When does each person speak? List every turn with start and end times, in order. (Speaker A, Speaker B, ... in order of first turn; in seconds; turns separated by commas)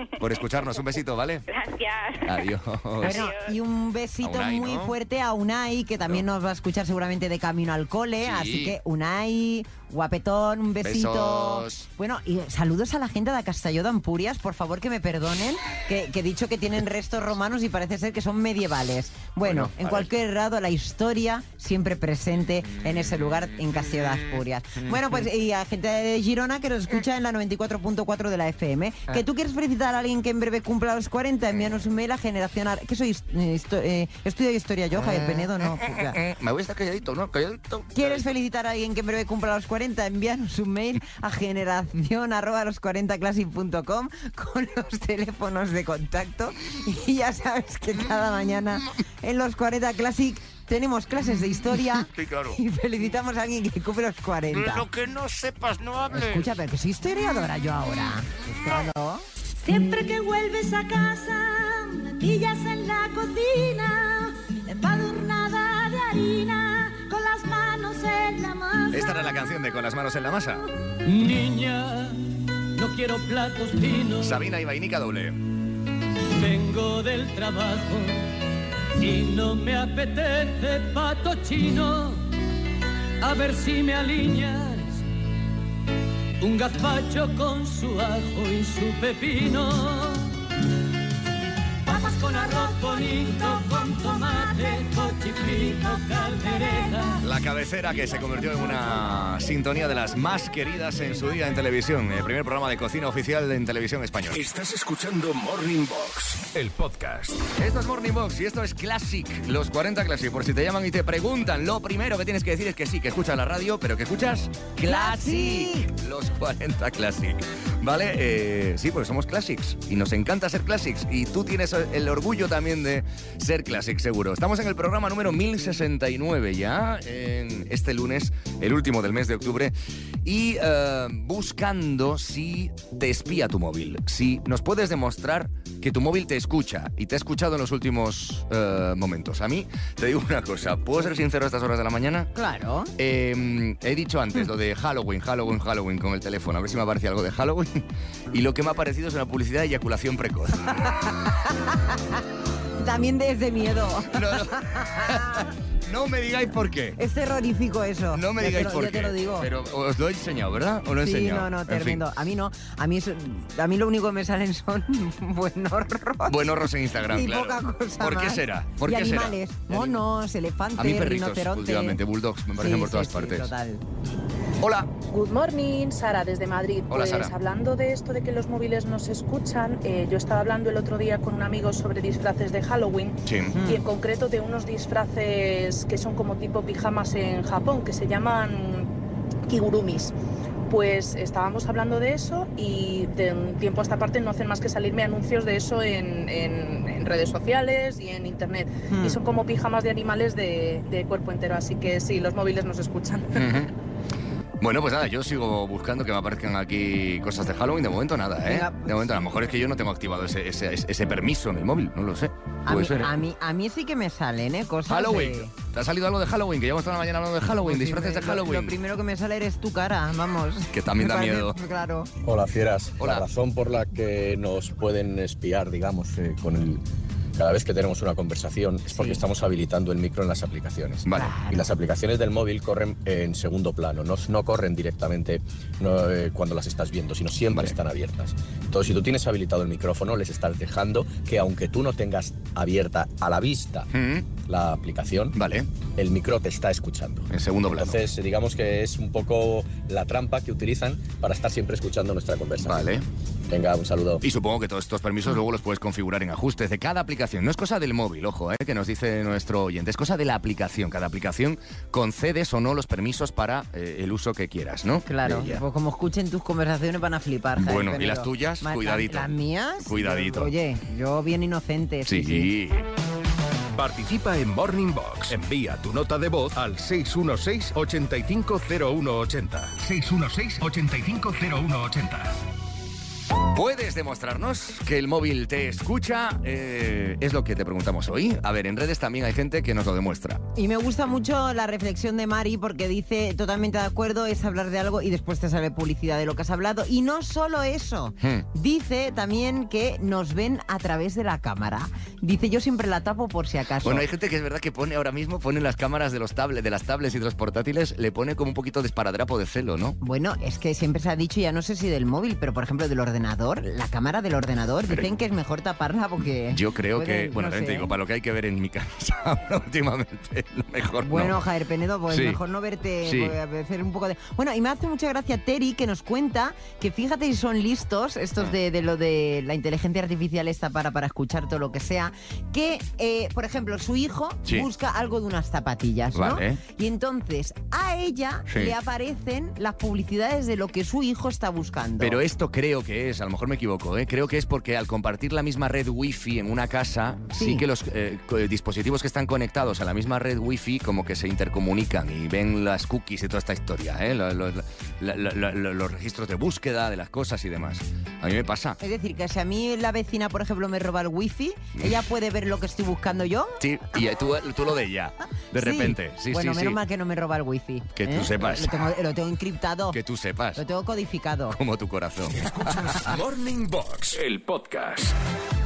Speaker A: 0.2-1.5, Speaker B: 0.2-0.8, Speaker B: 1.5-2.5, Speaker A: 2.2-3.3, Speaker C: 3.0-36.2, Speaker B: 3.0-3.5, Speaker A: 4.2-5.0, Speaker A: 8.2-8.8, Speaker A: 10.8-11.9, Speaker A: 19.4-20.1, Speaker A: 24.8-25.2, Speaker A: 34.9-38.3, Speaker C: 37.9-54.9, Speaker A: 52.1-52.6, Speaker A: 54.6-56.5, Speaker C: 56.1-59.2, Speaker D: 59.6-69.1, Speaker A: 68.9-70.6, Speaker E: 71.0-72.2, Speaker E: 72.8-74.4, Speaker A: 74.2-75.4, Speaker E: 76.4-78.2, Speaker E: 79.0-82.2, Speaker E: 83.2-85.0, Speaker E: 86.4-90.3, Speaker E: 91.9-97.2, Speaker D: 91.9-94.7, Speaker D: 95.6-97.2, Speaker A: 97.2-104.4, Speaker F: 104.3-107.4, Speaker A: 107.6-142.3, Speaker C: 114.8-115.9, Speaker C: 142.3-142.9, Speaker A: 143.0-150.8, Speaker C: 150.8-152.2, Speaker C: 152.8-155.5, Speaker A: 154.1-157.0, Speaker C: 157.0-159.5, Speaker A: 158.1-162.0, Speaker C: 161.0-172.0, Speaker A: 166.2-170.0, Speaker A: 170.8-173.5, Speaker C: 172.5-173.8, Speaker A: 174.6-174.9, Speaker G: 175.1-188.9, Speaker A: 176.9-177.3, Speaker A: 183.2-183.6, Speaker C: 183.5-183.8, Speaker G: 189.5-190.1, Speaker G: 190.7-203.4, Speaker C: 198.9-199.2, Speaker A: 203.3-203.7, Speaker A: 204.6-213.2, Speaker C: 208.4-209.1, Speaker C: 212.7-215.5, Speaker A: 214.9-218.8, Speaker C: 217.6-222.1, Speaker A: 220.7-221.6, Speaker H: 222.2-226.8, Speaker A: 223.0-223.3, Speaker H: 227.3-245.4, Speaker C: 228.9-229.2, Speaker A: 231.0-231.3, Speaker C: 231.1-231.7, Speaker A: 237.5-237.8, Speaker A: 243.9-244.3, Speaker A: 245.3-245.7, Speaker H: 245.9-254.2, Speaker A: 247.3-248.0, Speaker A: 252.6-253.1, Speaker A: 254.2-265.6, Speaker C: 265.1-272.5, Speaker A: 267.6-270.5, Speaker A: 272.1-272.8, Speaker F: 273.7-282.4, Speaker A: 283.5-290.4, Speaker C: 290.6-304.1, Speaker A: 303.8-310.0, Speaker C: 310.0-317.9, Speaker A: 314.9-315.1, Speaker A: 316.5-321.4, Speaker C: 321.0-342.2, Speaker A: 322.1-322.4, Speaker A: 323.0-323.4, Speaker A: 336.1-336.6, Speaker A: 338.5-338.7, Speaker A: 342.0-358.8, Speaker C: 347.4-347.6, Speaker C: 358.8-363.6, Speaker A: 363.6-366.8, Speaker C: 365.6-370.0, Speaker A: 367.9-368.8, Speaker A: 369.9-370.6, Speaker C: 370.5-371.6, Speaker A: 371.5-372.4, Speaker F: 372.3-375.1